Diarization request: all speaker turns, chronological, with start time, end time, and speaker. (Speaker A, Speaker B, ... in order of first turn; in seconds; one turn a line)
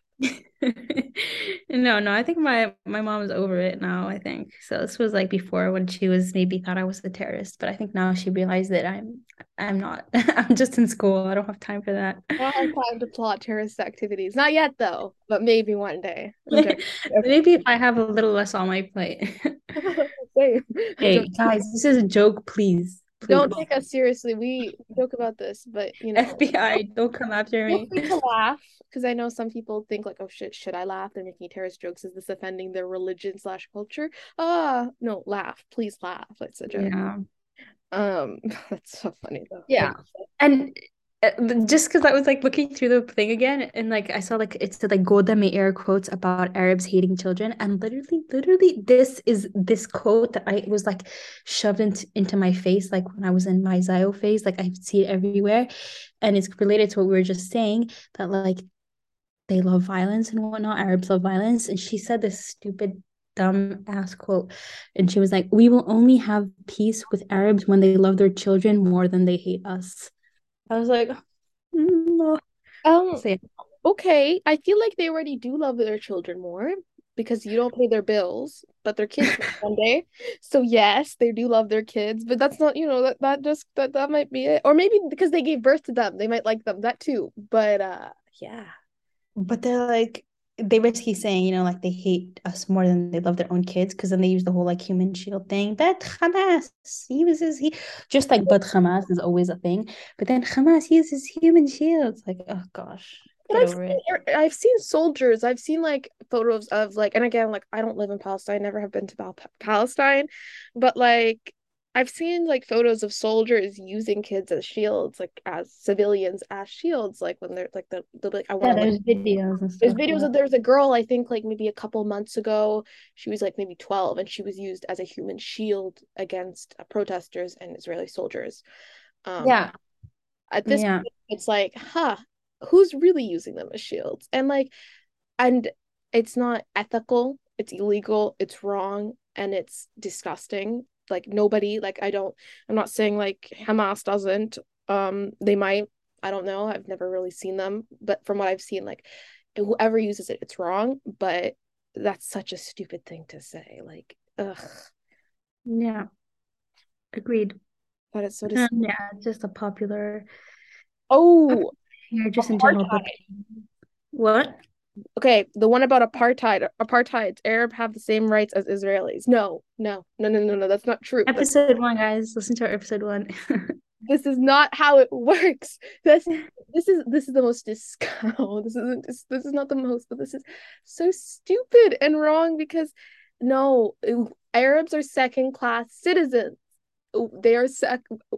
Speaker A: 0.2-12.4
Speaker B: 12.4-17.3
Speaker A: 16.5-19.6
Speaker B: 19.8-21.3
Speaker A: 21.0-23.6
Speaker B: 23.3-26.5
Speaker A: 26.1-28.1
Speaker B: 27.7-36.9
Speaker A: 36.7-37.2
Speaker B: 37.9-40.2
Speaker A: 39.7-55.7
Speaker A: 56.2-58.6
Speaker A: 59.5-70.1
Speaker A: 70.7-71.2
Speaker A: 71.7-72.4
Speaker B: 72.8-73.2
Speaker A: 73.2-73.4
Speaker B: 73.8-88.7
Speaker A: 89.4-104.0
Speaker B: 103.5-118.9
Speaker A: 118.6-120.3
Speaker B: 119.8-128.6
Speaker B: 129.3-129.6
Speaker A: 129.4-129.7
Speaker B: 130.5-134.7
Speaker A: 130.7-131.1
Speaker B: 135.4-154.8
Speaker A: 155.7-156.1
Speaker A: 157.1-157.6
Speaker B: 158.1-158.8
Speaker A: 158.6-160.3
Speaker B: 161.1-161.7
Speaker A: 162.1-163.6
Speaker B: 162.4-163.2
Speaker A: 164.1-164.6
Speaker B: 165.2-171.5
Speaker A: 171.3-173.7
Speaker B: 174.1-186.6
Speaker B: 187.1-188.0